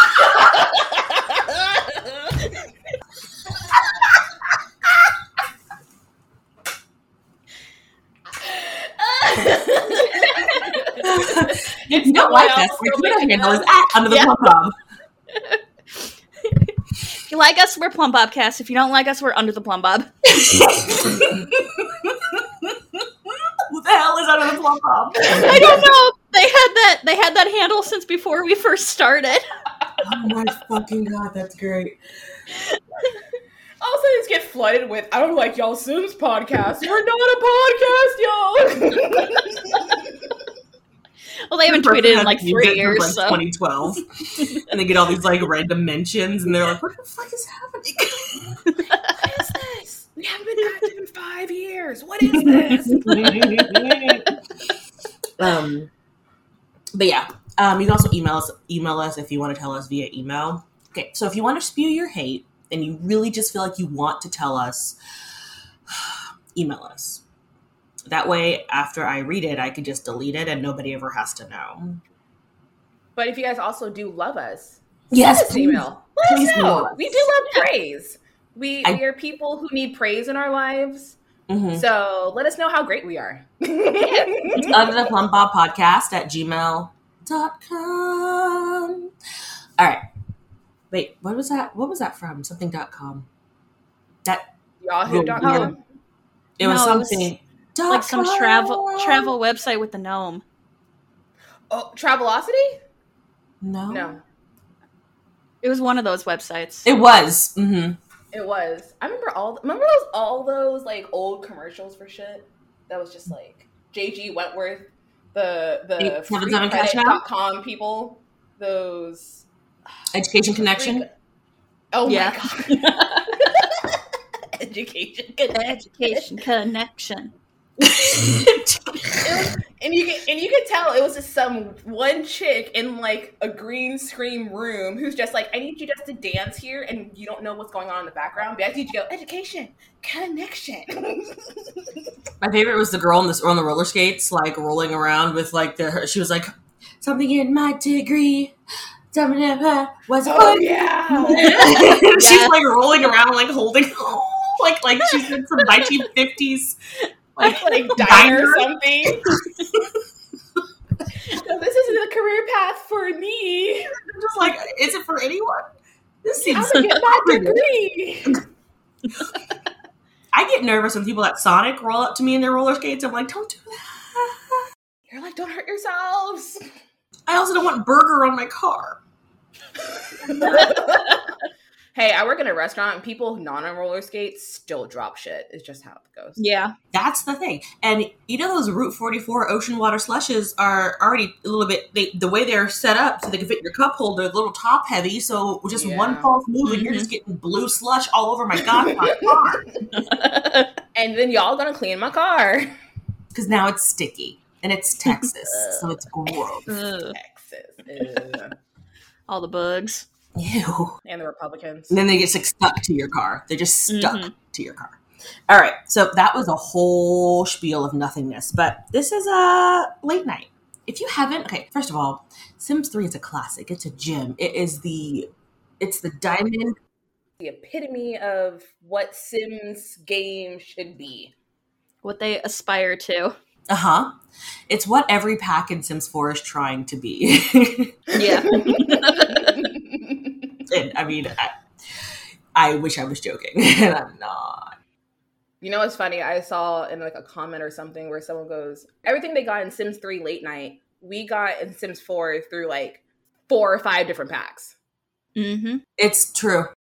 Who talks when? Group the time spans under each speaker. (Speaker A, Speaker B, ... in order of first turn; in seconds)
Speaker A: 8.4-11.1, 12.0-13.6, 25.4-25.7, 33.8-40.0, 48.8-53.9, 73.2-81.2, 81.7-84.7, 94.8-95.8, 101.7-102.8, 103.9-104.2, 108.3-119.5, 120.6-121.1, 121.9-124.0, 124.6-126.3, 129.2-141.9, 150.2-151.9, 157.4-159.3, 161.2-163.9, 166.4-168.4, 175.1-176.6, 180.2-181.2, 181.9-186.4, 195.7-196.3, 198.9-199.8, 200.9-202.7, 207.0-208.5, 211.0-212.0, 227.4-231.3, 238.2-240.2, 245.6-254.8
Speaker B: 10.1-10.9, 12.3-13.1, 15.3-15.6, 16.5-20.1, 25.3-29.4, 41.5-43.4, 53.1-53.3, 95.4-95.7, 96.6-97.3, 97.9-100.4, 105.6-106.8, 122.0-123.3, 125.5-127.3, 152.2-152.6, 157.5-158.3, 186.4-186.7, 196.6-197.1, 199.9-200.7, 205.1-205.8, 206.7-207.1, 209.3-210.1, 213.9-214.3, 232.0-233.3, 238.1-239.7, 255.3-255.8
Speaker C: 11.0-14.7, 20.3-22.7, 23.6-25.9, 30.0-32.0, 41.7-48.7, 52.2-54.3, 55.4-55.9, 56.9-65.0, 65.9-67.2, 68.1-72.0, 75.1-77.3, 81.5-81.8, 84.6-89.1, 89.8-90.0, 90.9-93.3, 95.0-95.7, 96.6-99.3, 103.6-104.1, 106.8-108.0, 116.0-117.2, 120.1-121.0, 127.8-129.5, 142.4-146.5, 147.0-148.6, 149.1-156.8, 157.3-158.7, 159.3-159.9, 163.9-165.7, 166.2-167.7, 170.3-174.6, 177.3-179.0, 186.9-199.7, 203.3-206.7, 210.3-211.0, 211.9-215.0, 215.5-225.3, 225.8-226.8, 233.7-234.2, 234.7-238.2, 240.7-241.5, 242.5-244.7, 256.0-256.7